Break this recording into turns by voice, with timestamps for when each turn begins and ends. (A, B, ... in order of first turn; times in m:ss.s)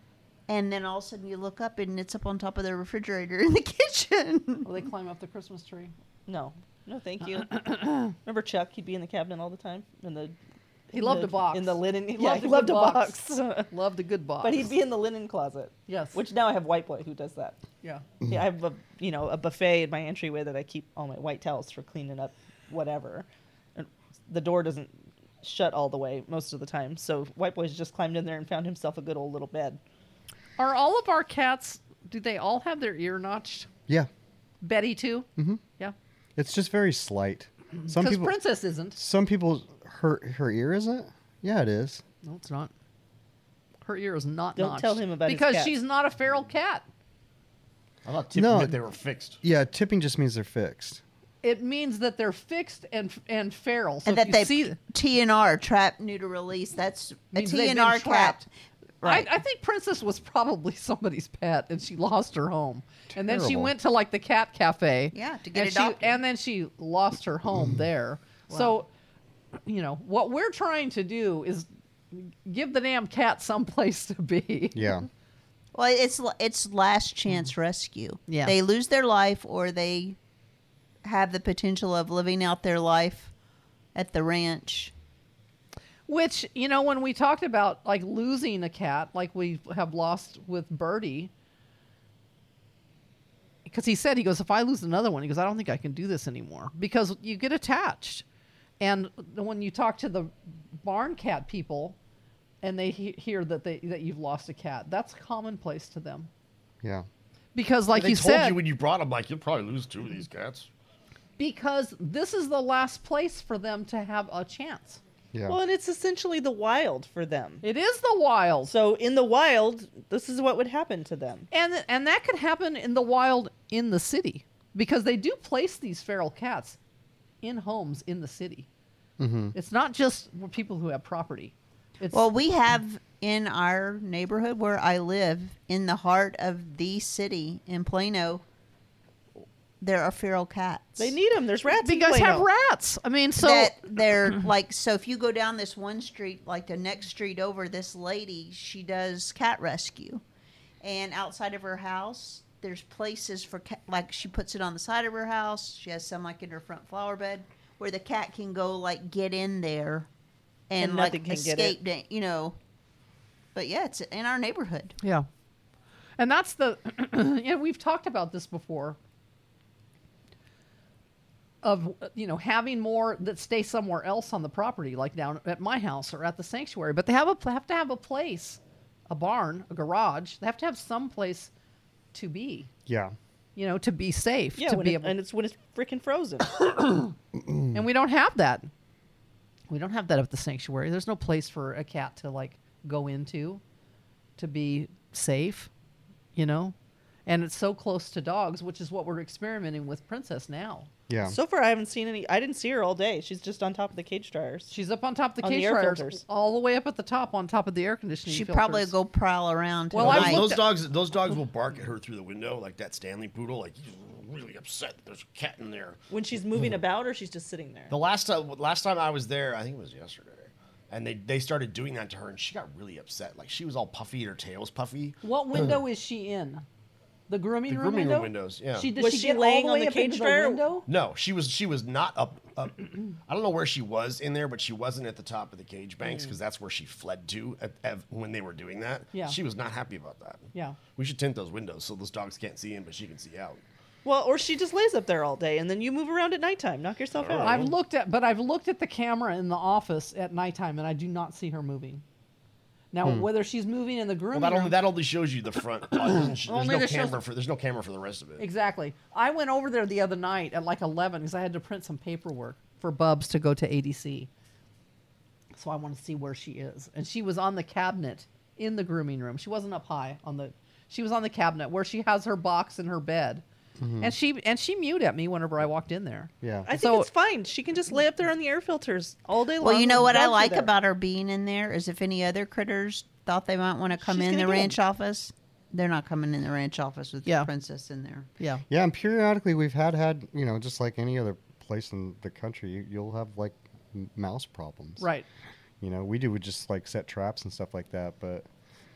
0:00.5-0:04.7 A
0:04.6-0:05.9 B
0:06.3-0:10.4 C
0:07.3-0:08.1 B
0:10.9-0:14.7 B
0:10.9-0:13.7 C
0:14.4-0:17.6 C
0:15.9-0:16.2 B
0:18.2-0:24.9 C
0:25.4-0:29.8 C
0:30.6-0:33.7 B
0:34.6-0:35.9 B
0:36.4-0:38.3 D
0:37.8-0:39.0 B
0:38.9-0:42.0 D
0:42.2-0:42.7 B
0:43.8-0:46.8 B
0:44.6-0:45.7 C
0:48.0-0:49.4 E
0:48.3-0:48.8 D
0:49.4-0:51.0 D
0:51.4-0:54.8 B
0:54.0-0:58.5 A
0:57.3-0:58.4 B
0:59.0-0:59.3 A
0:59.0-1:08.9 B
1:03.1-1:03.7 D
1:05.1-1:06.2 A
1:07.5-1:07.8 D
1:09.6-1:15.0 B
1:14.7-1:15.0 D
1:15.7-1:20.2 A
1:18.3-1:18.5 B
1:21.0-1:23.3 A
1:23.9-1:24.9 A
1:26.1-1:31.3 B
1:33.6-1:38.2 B
1:38.8-1:42.0 B
1:42.6-1:46.3 B
1:47.5-1:48.6 B
1:47.9-1:50.7 E
1:51.4-1:55.0 B
1:55.3-1:55.6 D
1:55.5-1:57.6 C
1:57.6-1:58.7 B
1:58.7-2:01.5 C
2:01.5-2:06.8 B
2:07.4-2:08.7 B
2:09.2-2:09.5 D
2:09.5-2:12.3 B
2:12.1-2:18.4 A
2:19.8-2:21.1 A
2:21.0-2:22.5 C
2:21.8-2:23.8 B
2:23.4-2:30.2 A
2:30.8-2:40.1 A
2:40.7-2:42.6 A
2:40.8-2:41.8 C
2:43.5-2:45.0 A
2:45.0-2:45.3 B
2:46.2-2:49.0 B
2:51.6-3:01.5 B
3:02.1-3:02.7 B
3:02.9-3:03.1 D
3:03.6-3:05.1 B
3:04.6-3:06.5 C
3:07.4-3:07.8 D
3:07.7-3:08.7 B
3:09.7-3:13.6 B
3:14.4-3:15.7 B
3:16.4-3:16.7 B
3:17.2-3:20.9 B
3:21.1-3:21.4 D
3:21.2-3:24.7 C
3:24.7-3:28.9 B
3:25.4-3:26.2 C
3:28.2-3:30.5 A
3:29.9-3:30.7 B
3:30.0-3:36.0 E
3:36.1-3:37.9 C
3:37.9-3:45.7 E
3:45.2-3:46.6 B
3:47.3-3:50.9 B
3:47.7-3:48.9 E
3:49.0-3:50.7 C
3:50.8-4:03.6 E
4:04.0-4:07.6 C
4:07.1-4:07.7 E
4:07.4-4:12.0 B
4:12.9-4:14.8 B
4:14.3-4:18.4 E
4:15.9-4:17.2 B
4:18.4-4:24.3 B
4:25.5-4:33.4 B
4:33.8-4:34.1 D
4:34.0-4:37.1 B
4:36.4-4:36.7 D
4:36.7-4:40.7 C
4:39.6-4:48.3 A
4:44.0-4:44.7 C
4:48.7-4:55.0 D
4:55.0-4:55.2 B
4:55.8-4:58.5 D